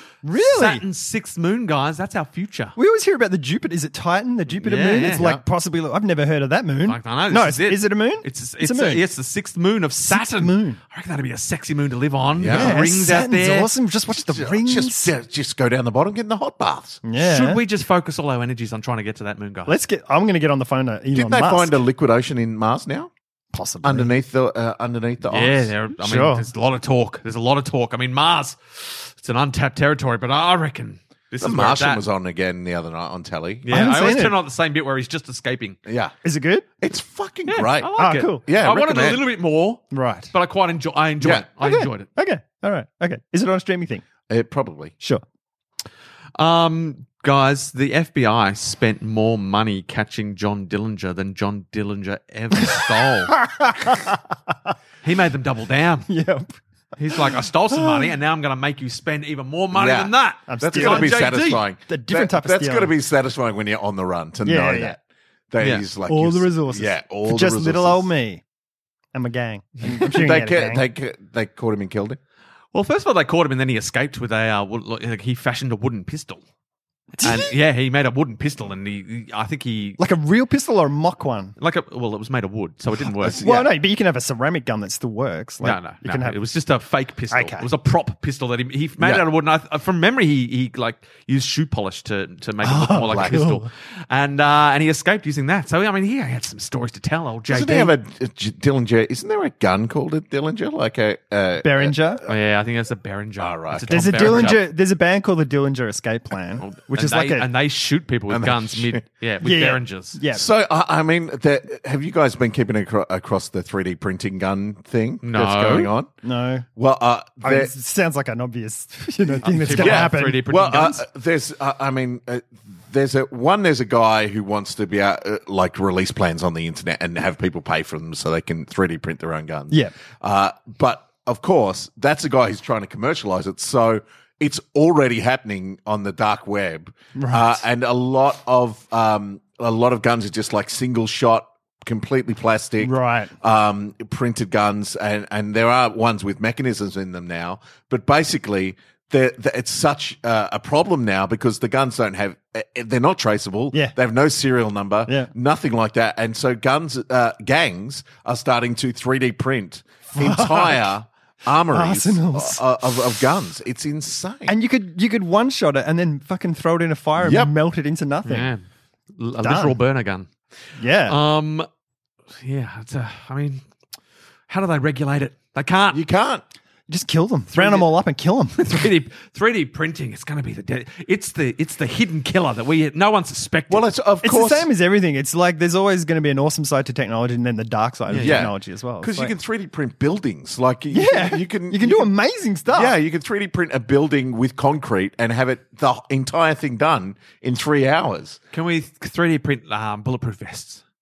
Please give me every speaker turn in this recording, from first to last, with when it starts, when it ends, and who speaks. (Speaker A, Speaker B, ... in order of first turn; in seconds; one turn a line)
Speaker A: 0.2-0.8
Speaker B: 0.3-2.8
Speaker A: 2.8-9.0
Speaker B: 4.6-5.2
Speaker C: 5.1-5.4
Speaker B: 6.8-13.7
Speaker A: 10.1-10.8
Speaker C: 12.4-12.8
Speaker A: 12.5-15.1
Speaker C: 14.1-17.0
Speaker A: 17.0-17.6
Speaker B: 17.2-19.7
Speaker A: 19.6-21.8
Speaker C: 21.1-23.1
Speaker A: 23.5-24.1
Speaker C: 23.8-25.7
Speaker B: 25.3-32.0
Speaker A: 26.0-26.5
Speaker C: 31.4-33.7
Speaker B: 33.6-35.8
Speaker A: 33.7-34.4
Speaker C: 35.9-36.1
Speaker A: 36.2-36.6
Speaker C: 36.8-39.2
Speaker B: 37.5-42.1
Speaker A: 37.9-38.4
Speaker A: 39.9-40.3
Speaker C: 41.2-41.5
Speaker A: 41.6-44.0
Speaker C: 44.3-44.9
Speaker B: 46.4-53.4
Speaker A: 52.6-54.2
Speaker B: 55.0-56.1
Speaker A: 56.1-56.5
Speaker B: 57.0-61.6
Speaker A: 57.1-58.1
Speaker C: 59.7-68.1
Speaker A: 60.5-62.9
Speaker A: 64.4-65.0
Speaker A: 66.1-68.4
Speaker A: 69.1-70.8
Speaker C: 70.1-72.2
Speaker B: 72.7-76.4
Speaker A: 77.2-77.5
Speaker B: 77.2-80.0
Speaker A: 80.0-81.5
Speaker B: 81.6-83.5
Speaker C: 83.2-83.7
Speaker A: 83.3-86.3
Speaker B: 85.6-97.9
Speaker A: 87.3-87.7
Speaker A: 92.6-93.7
Speaker C: 93.1-93.4
Speaker C: 97.5-102.0
Speaker A: 101.6-102.2
Speaker B: 102.3-104.7
Speaker C: 103.4-104.5
Speaker A: 103.9-107.5
Speaker B: 106.6-110.2
Speaker C: 108.3-109.0
Speaker A: 109.4-110.5
Speaker C: 110.3-116.1
Speaker B: 115.2-115.9
Speaker A: 116.2-116.7
Speaker C: 116.8-117.7
Speaker A: 117.4-120.5
Speaker B: 119.4-121.0
Speaker C: 119.7-164.5
Speaker A: 137.1-137.6
Speaker A: 142.8-143.3
Speaker A: 160.1-160.9
Speaker A: 161.7-162.6
Speaker A: 164.5-168.5
Speaker C: 167.2-167.5
Speaker B: 168.2-168.6
Speaker B: 169.2-170.3
Speaker A: 169.4-169.8
Speaker A: 170.8-171.2
Speaker B: 171.1-171.7
Speaker B: 172.4-173.6
Speaker B: 174.5-176.0
Speaker C: 175.9-176.4
Speaker A: 176.9-178.9
Speaker B: 177.5-177.9
Speaker B: 178.6-183.8
Speaker C: 183.7-184.7
Speaker A: 184.2-189.3
Speaker B: 188.1-188.4
Speaker C: 188.2-192.1
Speaker A: 190.9-192.9
Speaker C: 192.7-198.4
Speaker B: 198.5-200.8